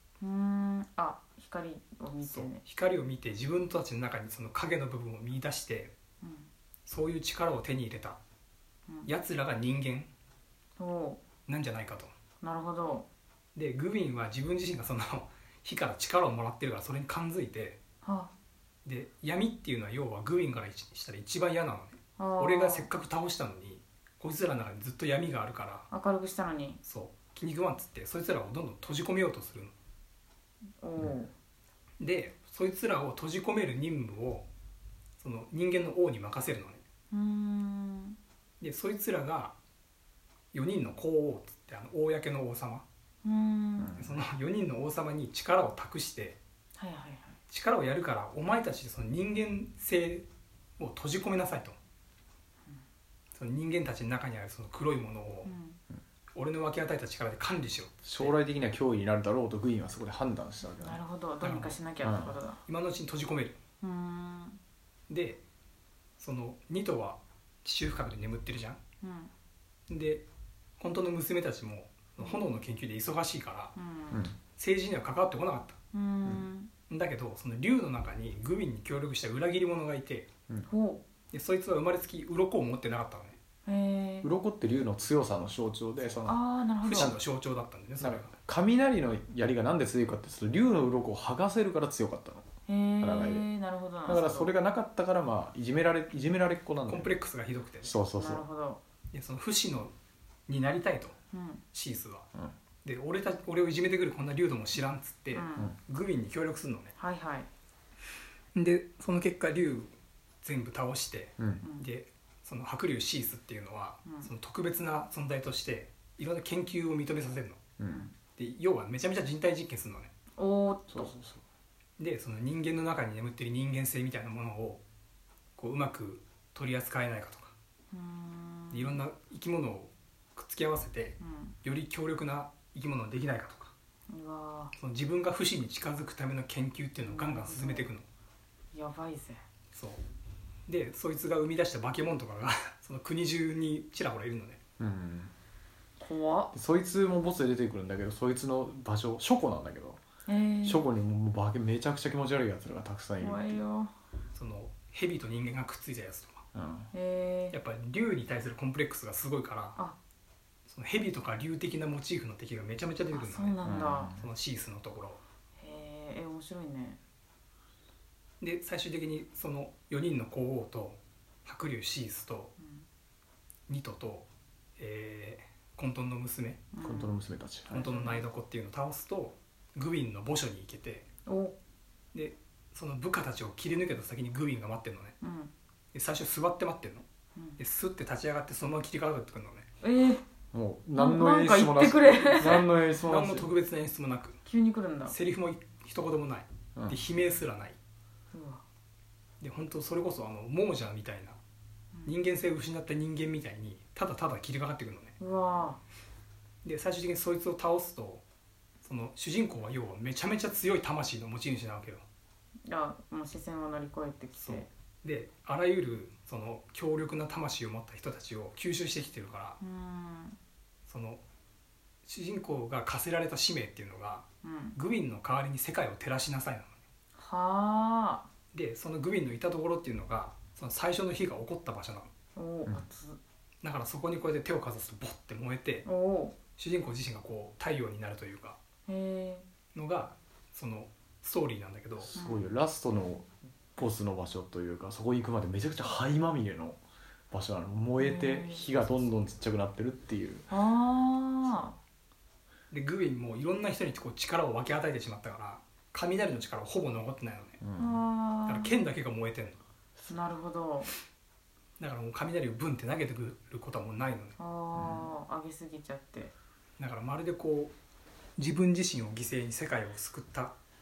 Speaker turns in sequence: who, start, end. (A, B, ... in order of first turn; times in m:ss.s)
0:00.2-0:02.6 A
0:02.2-0:05.9 B
0:06.2-0:06.5 A
0:06.9-0:08.2 B
0:09.1-0:10.1 B
0:10.8-0:11.2 A
0:11.5-0:12.1 B
0:12.4-0:13.1 A
0:13.6-0:17.8 B
0:18.0-0:18.3 A
0:18.8-0:25.9 B
0:22.2-0:22.9 A
0:25.9-0:26.8 A
0:26.8-0:29.7 B
0:30.8-0:31.3 A
0:32.0-0:34.5 B
0:35.2-0:36.8 B
0:37.1-0:38.2 A
0:38.6-0:39.5 B
0:40.5-0:42.8 B
0:43.2-0:44.0 A
0:43.8-0:44.2 C
0:44.0-0:46.4 B
0:46.8-0:47.4 A
0:47.5-0:50.3 B
0:50.8-0:51.8 B
0:53.3-0:55.5 B
0:55.4-0:55.8 A
0:56.4-0:58.3 B
0:58.0-1:01.0 C
1:00.8-1:02.6 A
1:01.4-1:01.8 B
1:02.0-1:02.4 C
1:02.7-1:03.6 B
1:03.8-1:04.6 A
1:05.1-1:05.4 B
1:06.2-1:08.8 B
1:09.0-1:09.3 A
1:09.9-1:10.2 B
1:10.8-1:13.8 B
1:13.8-1:14.3 A
1:14.5-1:15.8 B
1:15.9-1:16.7 A
1:16.9-1:20.3 B
1:20.7-1:21.0 A
1:21.3-1:23.4 B
1:23.7-1:24.3 A
1:24.2-1:26.4 C
1:26.2-1:27.2 A
1:26.8-1:28.3 B
1:26.9-1:27.2 C
1:28.0-1:32.4 C
1:32.7-1:34.5 A
1:33.0-1:33.5 C
1:34.1-1:37.1 C
1:36.9-1:38.0 B
1:37.8-1:38.4 C
1:38.2-1:38.8 A
1:39.1-1:39.9 B
1:40.5-1:41.2 B
1:41.3-1:41.6 A
1:41.7-1:42.3 B
1:42.8-1:46.9 B
1:45.3-1:45.8 A
1:47.0-1:47.5 A
1:48.6-1:57.6 B
1:51.6-1:51.9 A
1:54.0-1:54.3 A
1:57.8-1:58.1 C
1:57.8-1:58.2 A
1:58.4-2:00.1 B
2:00.4-2:01.1 A
2:00.9-2:01.4 C
2:02.0-2:04.8 B
2:05.6-2:07.5 B
2:07.9-2:09.0 A
2:08.7-2:13.7 B
2:11.2-2:11.6 A
2:14.1-2:14.7 A
2:14.8-2:18.1 B
2:17.1-2:17.9 A
2:18.7-2:19.4 A
2:19.7-2:20.0 B
2:20.7-2:24.6 B
2:24.8-2:25.3 C
2:26.0-2:26.6 A
2:26.5-2:30.0 C
2:30.3-2:30.9 A
2:30.6-2:33.6 C
2:33.2-2:33.9 A
2:34.3-2:36.4 B
2:36.6-2:36.9 C
2:36.9-2:37.6 A
2:37.5-2:39.8 B
2:40.7-2:45.2 B
2:43.1-2:44.2 A
2:43.6-2:44.2 C
2:45.6-2:47.0 A
2:48.4-2:52.5 B
2:52.6-2:52.9 A
2:53.7-2:56.6 B
2:56.7-2:57.2 A
2:56.8-2:57.9 C
2:57.7-3:01.1 B
2:57.7-2:58.2 A
3:01.3-3:01.6 A
3:02.1-3:05.2 B
3:05.2-3:05.5 A
3:05.9-3:07.0 B
3:07.6-3:09.7 B
3:09.8-3:10.2 A
3:10.5-3:13.5 C
3:11.0-3:12.8 A
3:12.8-3:14.4 B
3:14.4-3:15.2 A
3:15.1-3:17.8 B
3:18.3-3:18.6 A
3:19.4-3:21.4 B
3:22.0-3:25.1 B
3:25.2-3:25.8 A
3:26.6-3:28.2 B
3:28.8-3:32.0 B
3:32.7-3:34.7 A
3:34.4-3:39.6 B
3:39.6-3:40.4 A
3:40.9-3:41.2 B
3:42.0-3:46.8 B
3:44.4-3:44.8 A
3:47.2-3:48.3 A
3:48.5-3:52.1 B
3:52.4-3:53.2 A
3:53.6-3:55.8 B
3:55.8-3:56.4 A
3:56.6-3:58.6 B
3:58.9-3:59.4 A
3:59.7-4:02.2 B
4:02.0-4:06.8 C
4:02.2-4:02.5 A
4:07.3-4:10.5 C
4:08.0-4:08.7 A
4:08.8-4:09.1 B
4:10.5-4:11.8 A
4:12.7-4:17.6 B
4:17.6-4:18.0 C
4:17.8-4:18.8 A
4:18.5-4:19.6 B
4:20.1-4:20.9 A
4:21.8-4:24.4 B
4:24.4-4:26.3 A
4:24.7-4:25.1 C
4:26.8-4:27.7 B
4:28.4-4:30.5 B